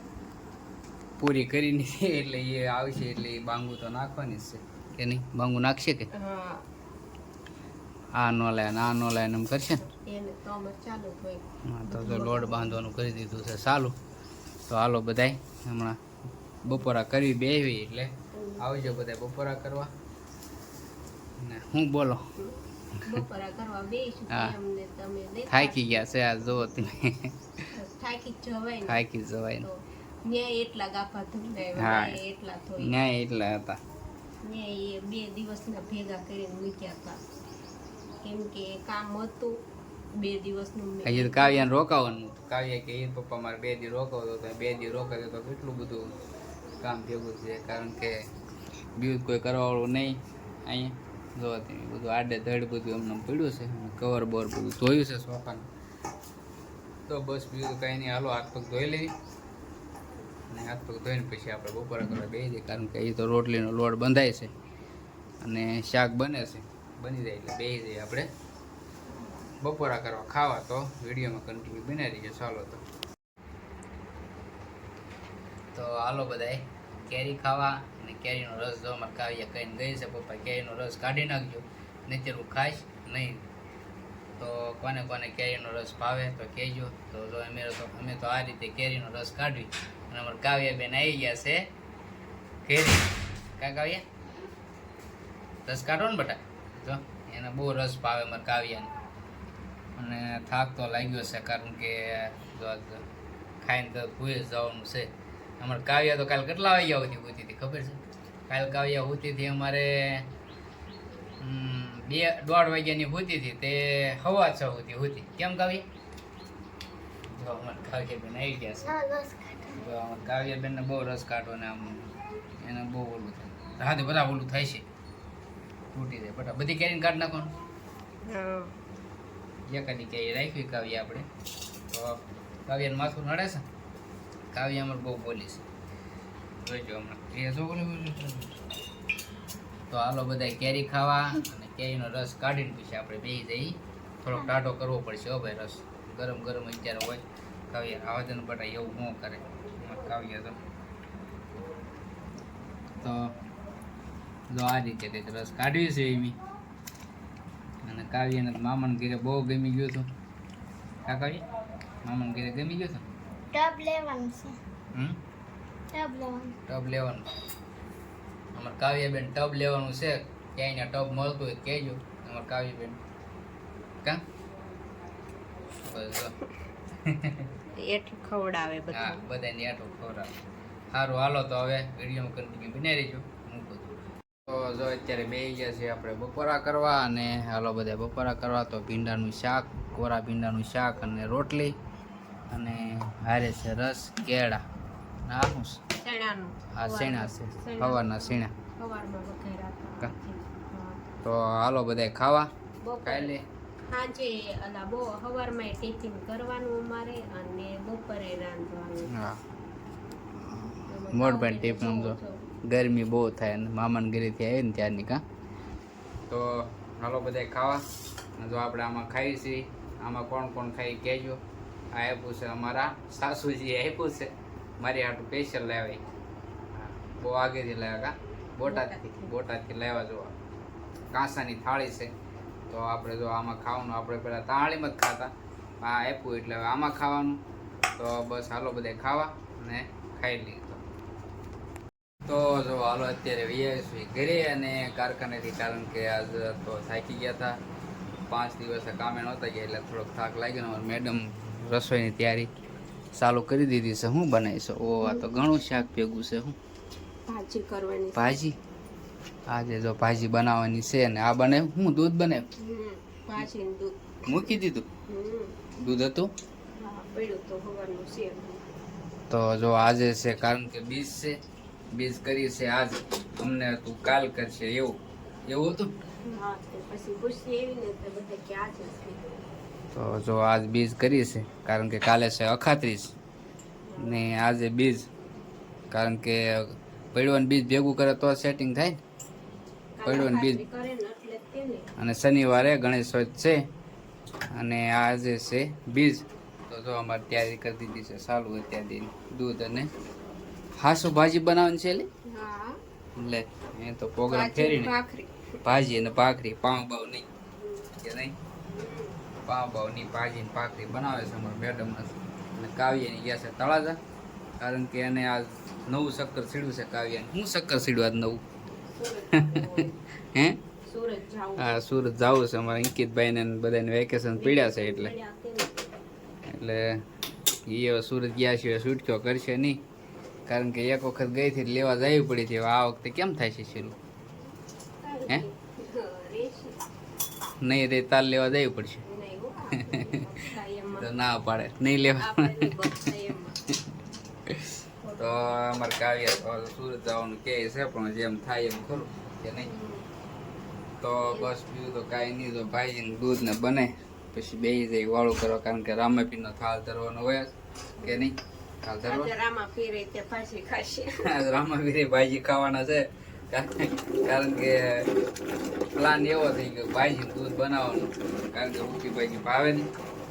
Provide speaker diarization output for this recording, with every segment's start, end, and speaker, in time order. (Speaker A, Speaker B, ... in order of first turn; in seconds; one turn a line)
Speaker A: 1.2-6.1
Speaker B: 6.1-6.7
Speaker A: 8.2-9.9
Speaker B: 9.9-12.8
Speaker A: 11.7-14.0
Speaker A: 14.7-16.0
Speaker A: 16.6-19.9
Speaker B: 18.3-18.9
Speaker A: 21.4-22.3
Speaker B: 22.4-25.9
Speaker A: 24.3-24.6
Speaker A: 25.5-27.4
Speaker B: 27.8-29.0
Speaker A: 28.9-29.7
Speaker B: 29.6-33.0
Speaker A: 31.8-32.2
Speaker A: 32.8-33.8
Speaker B: 34.4-37.2
Speaker B: 38.2-39.6
Speaker B: 40.2-41.7
Speaker A: 41.0-46.2
Speaker A: 46.8-48.3
Speaker A: 49.0-55.7
Speaker A: 57.1-59.1
Speaker A: 60.5-64.5
Speaker A: 65.4-68.3
Speaker A: 69.6-72.8
Speaker A: 75.7-83.4
Speaker A: 84.4-91.7
Speaker A: 92.7-94.0
Speaker A: 95.7-98.9
Speaker A: 100.0-103.1
Speaker A: 103.6-110.3
Speaker A: 111.4-115.9
Speaker A: 117.4-119.0
Speaker C: 118.9-119.8
Speaker A: 119.7-124.9
Speaker A: 125.9-127.5
Speaker B: 128.3-128.8
Speaker A: 129.7-131.3
Speaker A: 131.9-133.7
Speaker A: 134.5-135.7
Speaker A: 136.6-138.6
Speaker A: 139.9-150.6
Speaker A: 153.0-153.4
Speaker A: 154.5-156.4
Speaker A: 157.8-160.1
Speaker A: 161.0-161.4
Speaker A: 162.0-163.1
Speaker C: 163.5-164.6
Speaker A: 164.9-165.2
Speaker C: 165.9-166.6
Speaker A: 166.7-167.3
Speaker A: 168.5-173.0
Speaker A: 175.8-176.3
Speaker A: 177.0-177.5
Speaker B: 177.8-179.2
Speaker A: 178.9-180.4
Speaker A: 180.9-183.9
Speaker A: 184.5-191.8
Speaker A: 192.5-194.6
Speaker A: 195.3-195.8
Speaker B: 196.0-201.0
Speaker A: 196.7-198.5
Speaker A: 201.2-202.5
Speaker B: 202.8-209.1
Speaker A: 203.0-203.4
Speaker A: 209.1-209.4
Speaker A: 210.4-215.2
Speaker B: 210.9-212.3
Speaker A: 216.3-217.8
Speaker A: 218.4-221.4
Speaker A: 221.9-226.1
Speaker A: 226.7-230.4
Speaker B: 228.6-229.3
Speaker A: 231.1-232.1
Speaker A: 232.7-237.4
Speaker A: 238.0-240.8
Speaker A: 242.2-247.6
Speaker A: 248.3-252.5
Speaker A: 253.1-256.6
Speaker B: 255.0-255.3
Speaker B: 257.3-258.4
Speaker A: 258.1-258.6
Speaker A: 259.5-262.5
Speaker B: 262.6-264.0
Speaker A: 264.2-264.9
Speaker B: 265.1-265.6
Speaker A: 265.8-266.3
Speaker B: 266.8-268.6
Speaker A: 269.3-271.4
Speaker A: 271.9-275.9
Speaker B: 276.2-279.5
Speaker A: 279.9-283.1
Speaker B: 283.9-284.2
Speaker A: 284.0-285.1
Speaker A: 285.9-289.0
Speaker B: 290.0-291.9
Speaker A: 290.1-290.6
Speaker A: 292.0-293.6
Speaker A: 294.5-299.9
Speaker A: 300.8-302.1
Speaker B: 302.3-302.8
Speaker A: 303.2-304.9
Speaker B: 304.3-305.4
Speaker A: 305.6-307.3
Speaker A: 308.0-308.4
Speaker B: 308.7-309.2
Speaker A: 309.4-314.0
Speaker A: 314.6-318.4
Speaker B: 318.9-319.9
Speaker A: 319.3-320.6
Speaker B: 320.9-321.8
Speaker A: 321.6-325.1
Speaker B: 324.3-325.9
Speaker A: 326.5-327.0
Speaker A: 327.7-329.8
Speaker A: 330.5-334.0
Speaker B: 335.0-336.8
Speaker A: 337.6-339.0
Speaker B: 339.1-341.1
Speaker A: 339.7-340.3
Speaker A: 341.0-343.1
Speaker B: 342.2-343.6
Speaker A: 344.5-349.7
Speaker B: 345.0-345.3
Speaker B: 349.6-350.1
Speaker A: 351.0-359.3
Speaker B: 351.2-351.5
Speaker B: 358.0-358.3
Speaker B: 359.0-361.3
Speaker A: 361.2-365.1
Speaker A: 365.9-369.9